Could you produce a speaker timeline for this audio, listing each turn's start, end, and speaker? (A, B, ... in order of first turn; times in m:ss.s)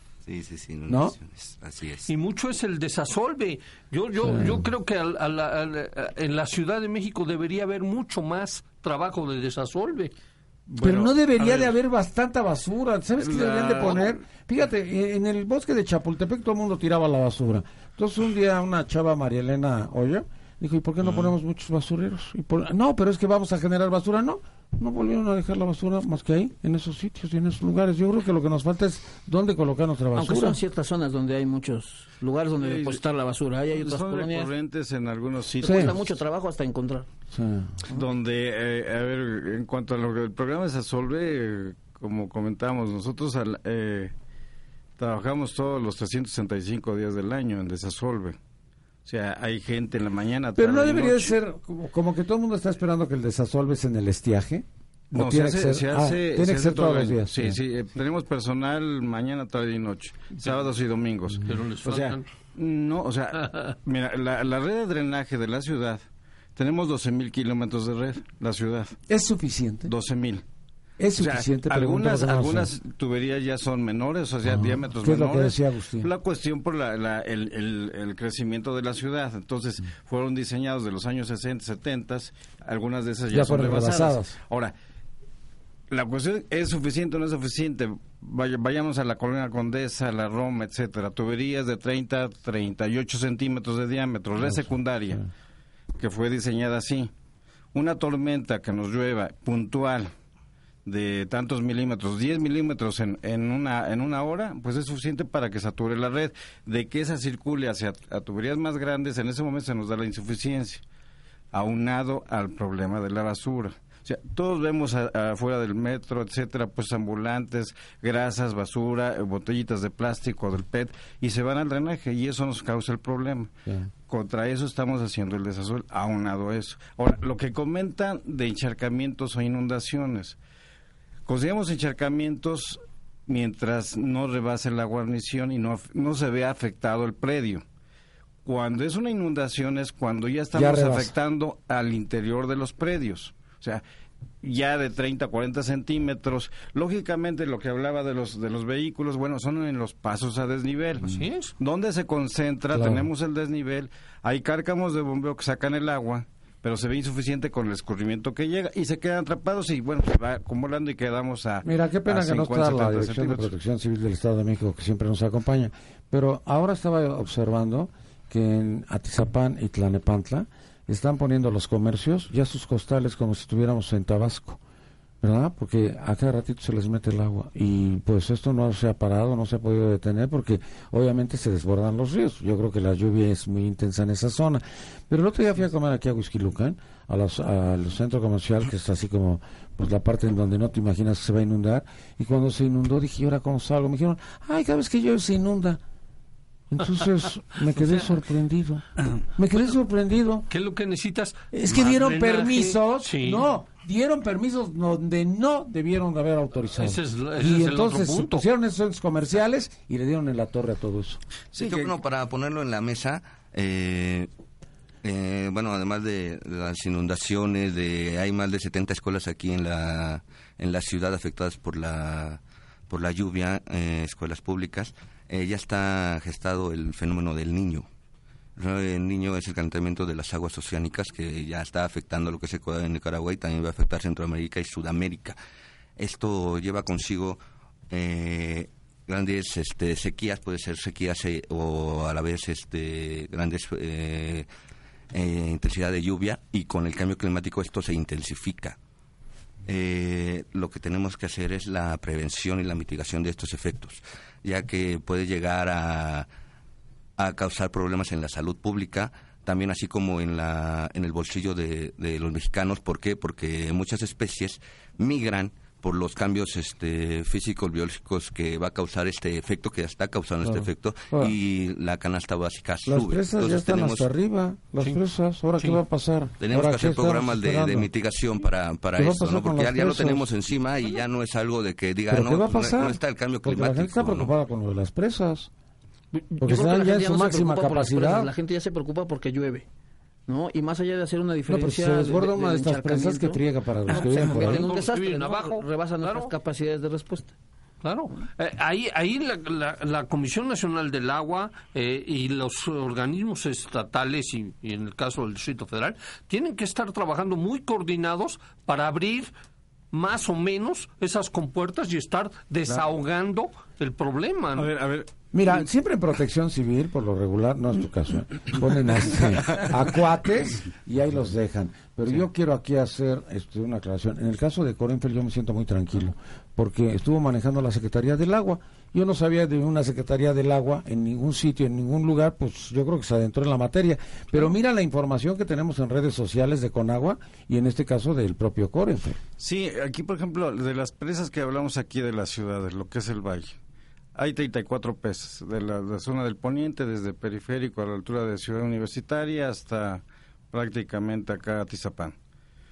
0:00.3-0:02.1 A
0:00.9-0:01.2 B
0:02.1-0:10.1 C
0:04.2-0:04.7 B
0:10.7-0:11.8 D
0:10.8-0:30.6 B
0:13.2-0:14.2 D
0:30.2-0:34.5 E
0:32.6-0:33.0 D
0:33.7-0:36.2 D
0:35.6-0:37.1 E
0:35.6-0:35.9 B
0:37.3-0:37.8 B
0:37.9-0:44.1 D
0:45.0-0:48.4 D
0:49.0-0:51.4 D
0:50.6-0:57.6 B
0:55.1-1:06.0 D
1:01.5-1:02.3 C
1:06.6-1:09.0 D
1:09.1-1:09.9 B
1:09.9-1:10.4 D
1:11.0-1:12.7 B
1:11.2-1:24.7 D
1:14.4-1:16.1 B
1:23.3-1:24.4 B
1:25.9-1:35.3 D
1:34.4-1:35.2 B
1:36.0-1:37.1 D
1:37.7-1:40.1 D
1:40.9-1:50.8 D
1:51.5-2:03.5 D
2:04.1-2:10.4 D
2:11.3-2:17.6 D
2:18.4-2:23.8 D
2:20.5-2:21.1 B
2:24.4-2:43.5 D
2:31.0-2:31.5 C
2:32.7-2:33.1 B
2:41.6-2:54.6 B
2:55.2-3:15.8 B
3:16.7-3:20.5 B
3:20.5-3:23.5 C
3:21.5-3:31.2 B
3:26.7-3:28.5 C
3:31.6-3:34.3 A
3:31.6-3:32.0 D
3:35.0-3:47.9 A
3:48.6-3:55.4 A
3:56.0-3:57.4 A
3:57.9-4:04.5 A
4:05.1-4:08.8 A
4:09.7-4:16.3 A
4:17.2-4:34.1 A
4:30.4-4:31.3 B
4:32.9-4:37.9 B
4:36.4-4:44.3 A
4:39.0-4:40.3 B
4:42.1-4:45.5 B
4:46.1-4:49.6 E
4:46.4-4:48.3 B
4:50.3-4:57.3 E
4:51.5-4:54.7 B
4:53.9-4:56.3 C
4:57.8-5:09.3 C
5:09.9-5:14.7 C
5:14.6-5:15.1 D
5:15.3-5:39.2 B
5:39.4-5:43.6 D
5:44.2-5:52.2 D